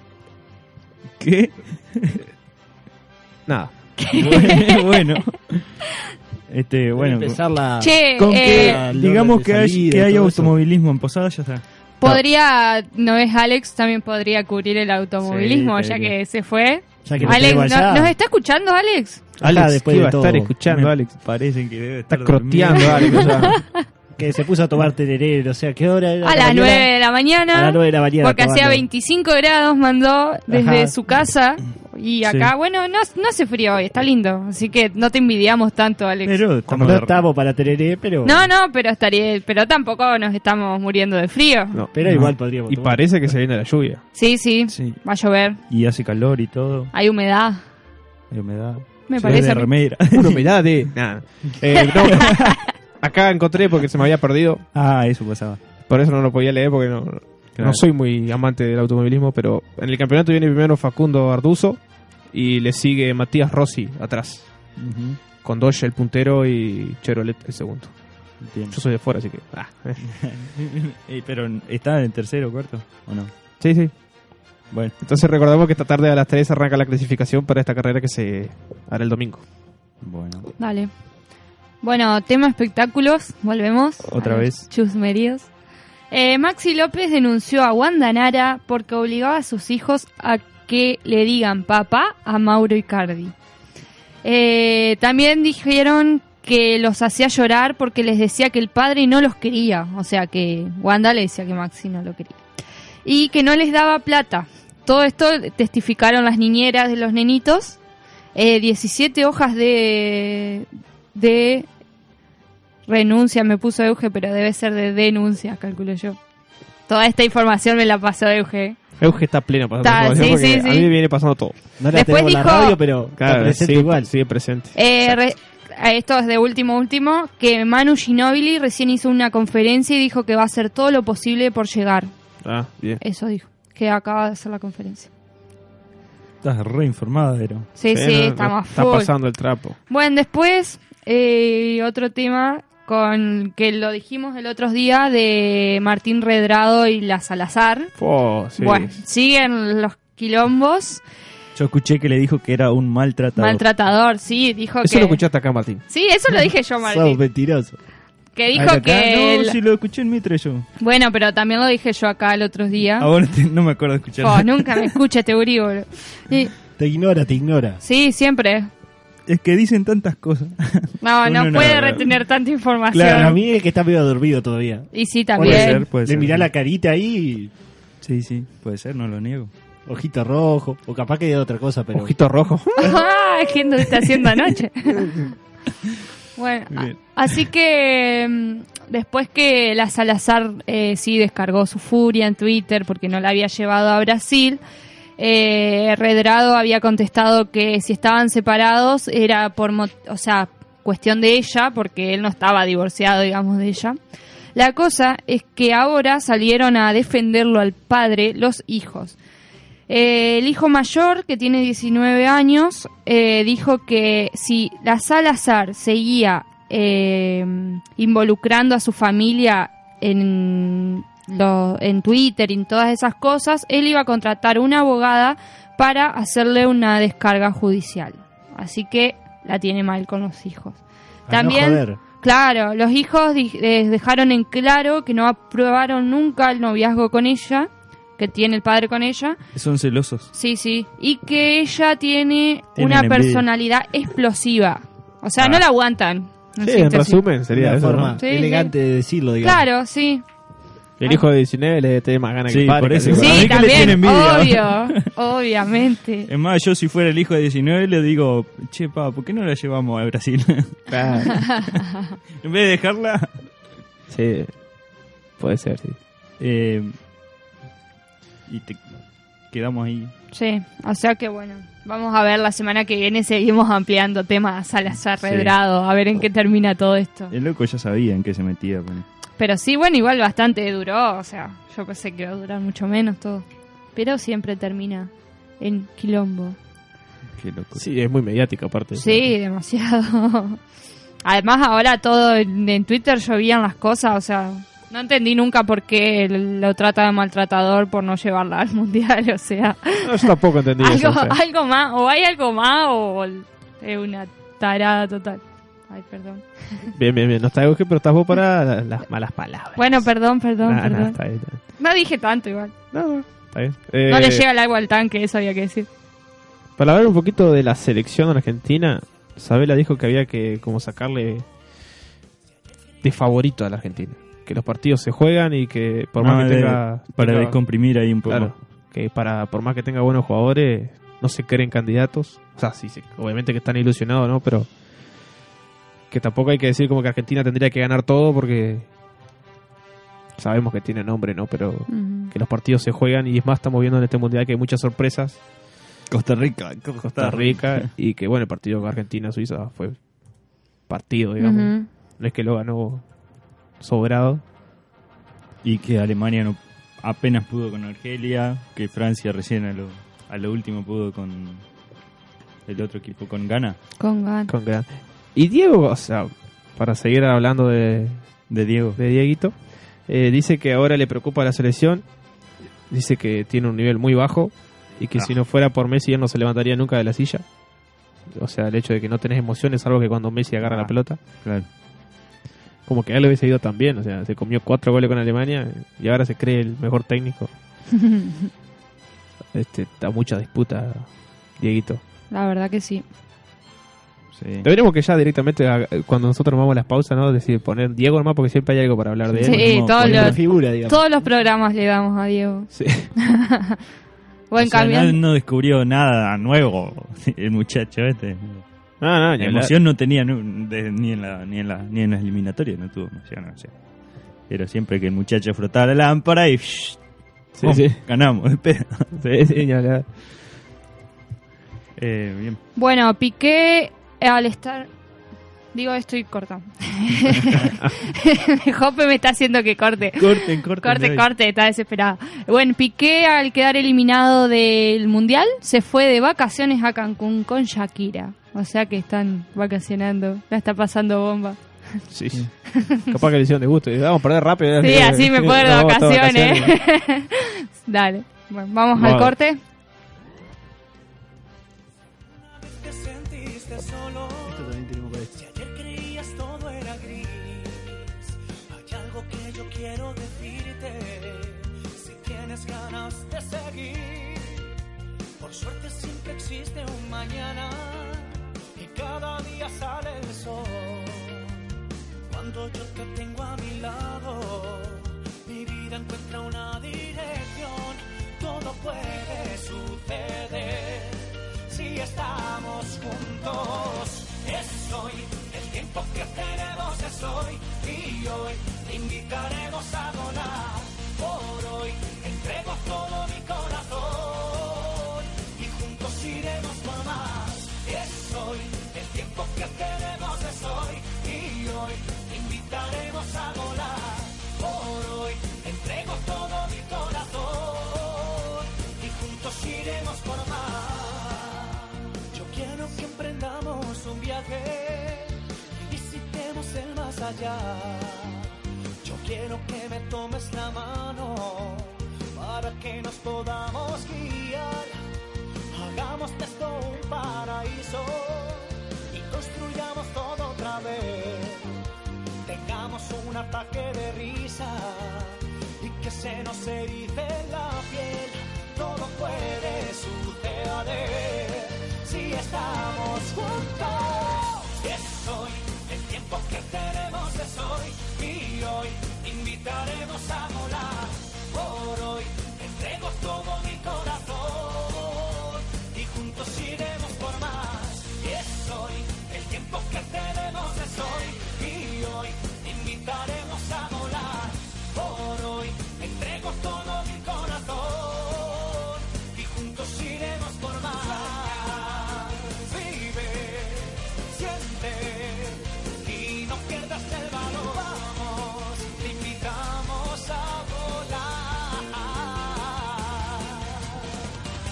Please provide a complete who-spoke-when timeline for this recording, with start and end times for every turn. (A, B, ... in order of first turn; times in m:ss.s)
0:01.2-0:02.2 A
0:03.4-0:04.0 B
0:04.0-0:05.2 C
0:04.1-0:05.8 A
0:06.5-0:07.4 A
0:07.0-0:10.5 D
0:07.8-0:08.8 C
0:08.1-0:11.6 A
0:12.0-0:19.2 C
0:15.2-0:16.1 A
0:17.0-0:18.1 D
0:19.4-0:20.5 D
0:19.4-0:21.2 B
0:20.6-0:23.5 A
0:22.1-0:23.6 B
0:23.4-0:23.8 C
0:24.2-0:28.8 D
0:26.2-0:36.4 C
0:30.5-0:30.9 D
0:32.2-0:32.5 A
0:36.2-0:37.3 A
0:36.7-0:38.5 D
0:38.2-0:41.8 C
0:41.7-0:44.0 B
0:41.9-0:43.0 D
0:42.0-0:42.3 A
0:44.1-0:45.6 C
0:44.7-0:45.0 A
0:45.7-0:46.9 A
0:46.9-0:47.6 C
0:48.3-0:50.7 A
0:49.1-0:49.7 C
0:50.1-0:54.6 B
0:52.1-0:52.5 A
0:54.7-0:55.6 A
0:55.8-1:04.5 B
0:57.6-0:57.8 A
1:04.8-1:05.2 A
1:05.4-1:07.9 B
1:08.4-1:08.8 A
1:08.7-1:10.0 B
1:10.0-1:13.3 A
1:13.6-1:13.9 B
1:15.0-1:19.4 B
1:20.0-1:20.5 A
1:20.6-1:20.9 C
1:21.8-1:25.5 C
1:24.1-1:24.6 A
1:26.1-1:33.3 C
1:34.2-1:42.4 C
1:43.0-1:47.8 C
1:48.3-1:51.7 C
1:52.9-1:56.2 C
1:56.9-1:58.8 C
1:59.0-2:01.6 B
1:59.8-2:00.9 C
2:01.8-2:04.1 D
2:01.9-2:02.8 C
2:03.2-2:05.2 B
2:04.7-2:12.1 C
2:12.4-2:13.0 B
2:13.0-2:15.1 C
2:16.4-2:17.7 A
2:17.8-2:19.1 C
2:17.9-2:19.8 B
2:19.9-2:27.9 C
2:28.0-2:29.0 B
2:28.6-2:31.0 C
2:31.5-2:33.6 A
2:33.4-2:35.2 C
2:34.8-2:35.8 B
2:35.9-2:37.2 C
2:36.8-2:37.8 D
2:38.3-2:39.6 C
2:38.5-2:38.8 D
2:38.5-2:40.6 A
2:40.8-2:43.1 C
2:43.0-2:44.9 A
2:44.2-2:46.5 C
2:46.8-2:47.8 D
2:47.8-2:48.7 C
2:49.3-2:52.1 A
2:51.0-2:53.4 C
2:52.9-2:57.5 D
2:54.9-2:55.8 C
2:55.4-2:56.5 A
2:58.0-2:59.5 A
2:59.9-3:02.1 D
3:01.9-3:03.0 B
3:02.8-3:05.3 C
3:06.4-3:14.6 C
3:15.2-3:24.0 C
3:24.5-3:29.2 C
3:29.9-3:59.4 C
3:51.3-3:52.0 D
3:59.5-4:00.3 A
4:00.3-4:07.2 C
4:02.8-4:03.4 A
4:05.4-4:05.6 A
4:06.6-4:08.2 B
4:07.5-4:09.6 D
4:08.2-4:08.7 C
4:09.4-4:10.2 C
4:11.0-4:14.0 B
4:12.5-4:15.0 A
4:13.2-4:16.3 C
4:16.3-4:21.8 A
4:20.9-4:21.4 B
4:21.3-4:22.0 C
4:22.4-4:23.3 A
4:24.1-4:24.5 B
4:25.4-4:26.0 B
4:26.4-4:26.9 A
4:28.5-4:28.8 A
4:29.5-4:30.1 A
4:30.3-4:37.3 C
4:35.2-4:35.5 A
4:37.3-4:39.0 A
4:39.4-4:46.6 C
4:47.4-4:47.8 A
4:47.7-4:49.3 B
4:48.9-4:50.6 C
4:51.2-5:06.9 C
5:00.0-5:01.4 B
5:06.9-5:10.1 B
5:09.8-5:11.2 C
5:10.6-5:11.6 B
5:11.8-5:12.7 C
5:12.9-5:14.4 B
5:14.1-5:15.9 C
5:16.8-5:21.4 B
5:23.0-5:27.6 B
5:26.2-5:28.5 A
5:28.2-5:34.7 B
5:36.1-5:38.9 B
5:40.4-5:45.4 B
5:41.9-5:42.3 C
5:46.1-5:47.9 A
5:47.0-5:50.0 B
5:50.9-5:53.0 B
5:51.4-5:51.9 C
5:53.8-5:54.4 B
5:55.6-6:01.6 A
6:02.6-6:03.8 A
6:04.0-6:04.5 C
6:04.5-6:08.4 B
6:08.5-6:09.0 A
6:09.0-6:09.5 B
6:10.0-6:12.0 B
6:12.9-6:17.4 B
6:18.3-6:21.2 B
6:20.6-6:21.7 A
6:22.8-6:27.5 B
6:28.0-6:28.3 C
6:29.5-6:32.0 B
6:32.3-6:33.0 C
6:34.4-6:34.7 A
6:34.6-6:39.6 B
6:39.3-6:40.4 A
6:39.4-6:43.8 C
6:39.8-6:41.0 D
6:42.7-6:43.1 B
6:44.5-6:45.2 C
6:44.6-6:48.6 A
6:49.0-6:49.7 B
6:49.4-6:53.7 A
6:54.5-6:57.0 A
6:57.6-6:58.0 B
6:57.6-6:59.1 A
6:59.2-7:00.1 B
7:02.0-7:02.6 A
7:02.8-7:04.9 C
7:05.7-7:21.6 C
7:10.2-7:11.2 A
7:22.1-7:26.8 B
7:22.7-7:23.1 C
7:24.8-7:29.6 C
7:29.0-7:29.3 B
7:32.3-7:34.8 E
7:34.5-7:35.3 D
7:35.3-7:44.7 E
7:45.4-7:51.6 E
7:52.3-8:45.0 E
8:45.7-8:51.8 E
8:52.4-9:44.2 E